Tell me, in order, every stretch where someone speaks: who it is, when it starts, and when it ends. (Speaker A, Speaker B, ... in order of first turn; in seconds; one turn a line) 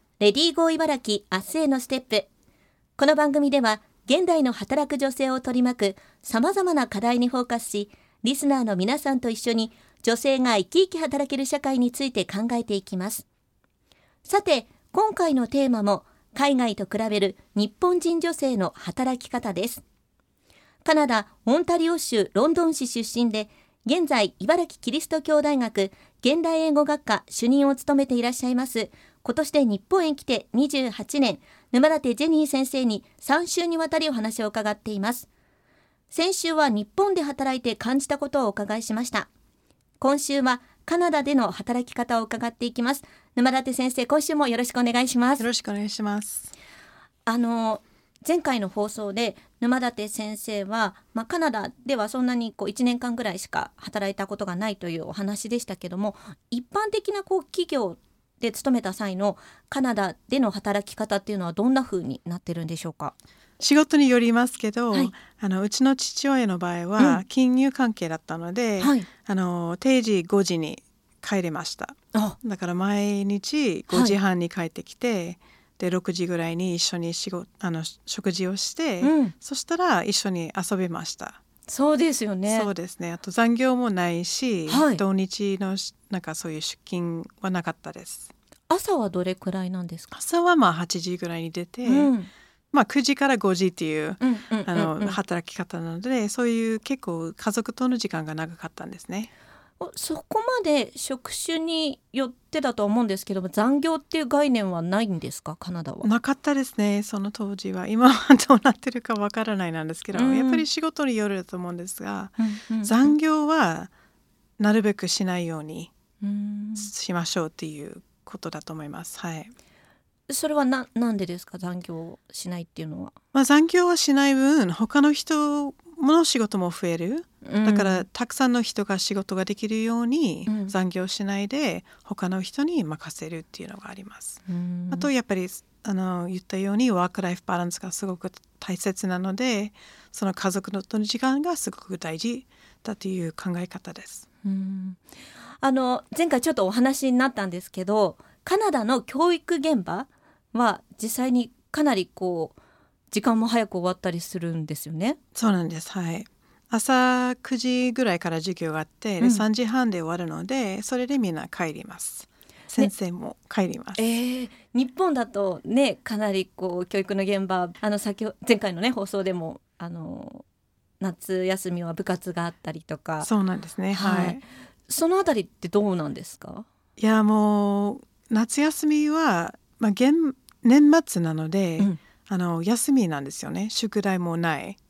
Speaker A: 0.2-2.3
Speaker A: 3.0-13.2
Speaker A: 14.2-19.8
Speaker A: 20.8-35.3
Speaker A: 36.1-39.3
Speaker A: 40.0-45.4
Speaker B: 45.4-46.5
Speaker A: 47.2-63.1
Speaker B: 63.6-81.4
Speaker A: 68.8-69.1
Speaker A: 73.9-74.2
Speaker A: 79.0-79.3
Speaker A: 81.7-82.7
Speaker B: 82.5-88.3
Speaker A: 84.7-85.0
Speaker A: 88.7-90.1
Speaker B: 90.1-92.1
Speaker A: 91.8-92.3
Speaker B: 92.7-99.3
Speaker A: 94.2-95.2
Speaker A: 99.8-106.1
Speaker B: 106.0-113.9
Speaker A: 110.1-110.6
Speaker A: 112.4-113.1
Speaker B: 114.6-115.9
Speaker A: 116.2-116.9
Speaker B: 116.8-119.5
Speaker A: 120.3-123.1
Speaker B: 123.3-144.2
Speaker A: 127.4-128.0
Speaker A: 130.5-130.7
Speaker A: 134.5-135.1
Speaker A: 144.4-145.0
Speaker A: 145.6-152.6
Speaker A: 153.1-155.2
Speaker B: 155.3-164.0
Speaker A: 159.2-159.4
Speaker A: 164.0-170.4
Speaker A: 171.0-173.3
Speaker B: 173.2-174.4
Speaker A: 173.9-176.7
Speaker B: 177.0-184.8